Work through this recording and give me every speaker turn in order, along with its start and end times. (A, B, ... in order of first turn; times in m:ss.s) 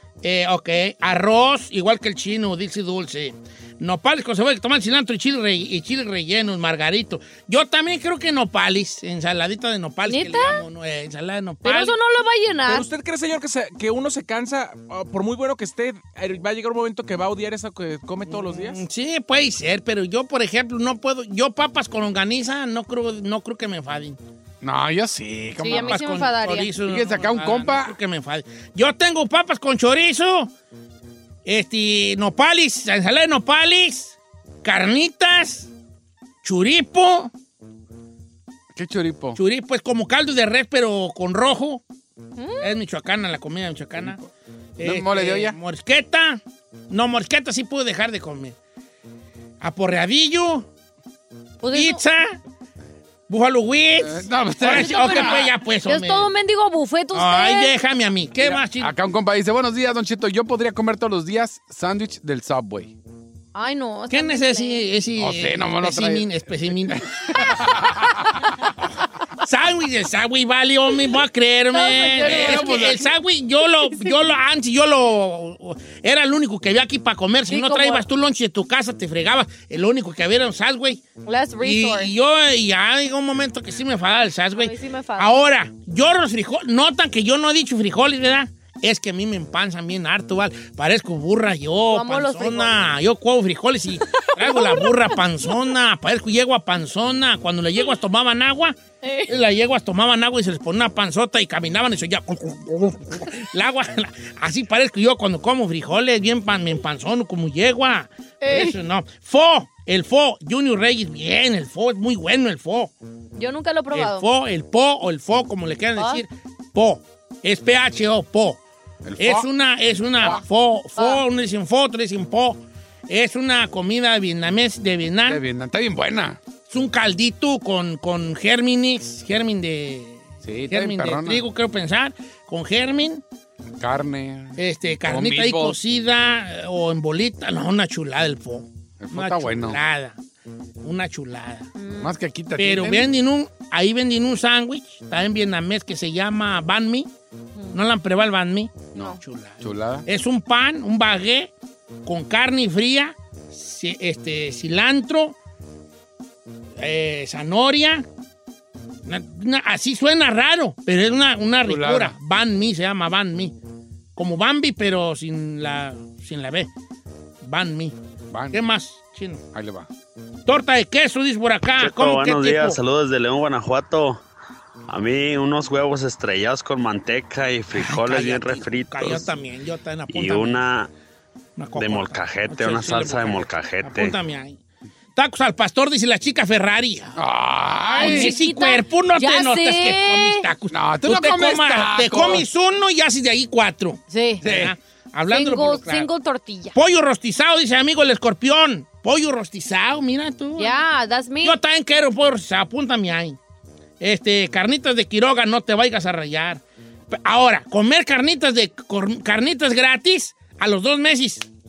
0:00.2-0:11.9 A
0:10.1-0:10.6 B
0:11.6-0:12.9 B
0:12.7-0:18.8 C
0:18.3-0:24.2 A
0:24.6-0:26.0 D
0:25.6-0:26.7 B
0:25.6-0:30.5 A
0:26.8-0:28.0 D
0:31.4-0:35.7 A
0:36.4-0:37.3 A
0:38.7-0:39.4 D
0:39.4-0:41.8 A
0:42.4-0:42.8 B
0:42.6-0:44.2 A
0:44.8-0:48.6 A
0:44.8-0:45.6 D
0:49.6-0:50.7 A
0:51.6-0:52.0 B
0:51.7-0:52.4 A
0:53.3-0:56.3 A
0:54.0-0:55.5 D
0:54.6-0:57.7 B
0:57.1-0:58.9 A
0:58.4-1:02.9 D
1:03.5-1:04.9 B
1:04.1-1:07.5 A
1:05.2-1:08.2 D
1:09.4-1:21.0 A
1:11.7-1:13.0 B
1:12.2-1:13.1 D
1:13.8-1:14.1 B
1:17.5-1:18.0 B
1:21.2-1:22.1 B
1:21.6-1:38.8 A
1:24.6-1:25.4 B
1:31.9-1:32.8 B
1:34.2-1:35.1 B
1:39.0-1:39.3 B
1:39.3-1:52.9 A
1:48.4-1:48.7 B
1:53.4-1:54.2 B
1:53.9-1:58.6 A
1:56.0-1:56.2 B
1:59.0-1:59.5 D
1:59.2-2:05.4 A
2:01.0-2:01.2 B
2:05.3-2:06.4 D
2:06.7-2:13.2 A
2:10.4-2:11.4 D
2:13.8-2:15.8 D
2:14.6-2:20.2 A
2:19.0-2:19.8 D
2:20.8-2:21.7 A
2:21.8-2:22.1 B
2:22.0-2:23.1 D
2:22.6-2:27.1 A
2:27.7-2:31.5 A
2:28.9-2:30.0 D
2:32.0-2:35.4 A
2:36.8-2:38.0 A
2:39.0-2:43.5 A
2:41.6-2:42.1 D
2:44.2-2:46.7 A
2:47.4-2:47.9 A
2:48.3-2:48.6 D
2:48.5-2:49.4 A
2:49.5-2:49.9 D
2:50.4-2:52.8 A
2:51.8-2:54.2 E
2:54.9-2:59.3 E
2:57.7-3:00.6 A
3:00.1-3:00.9 E
3:01.6-3:04.6 A
3:01.7-3:04.2 E
3:05.2-3:07.1 A
3:07.2-3:08.3 D
3:07.9-3:16.1 A
3:07.9-3:10.4 B
3:10.7-3:12.4 D
3:14.1-3:14.4 B
3:14.4-3:14.7 D
3:15.3-3:16.8 B
3:16.7-3:20.8 A
3:20.6-3:21.6 B
3:21.4-3:23.4 A
3:24.0-3:31.4 A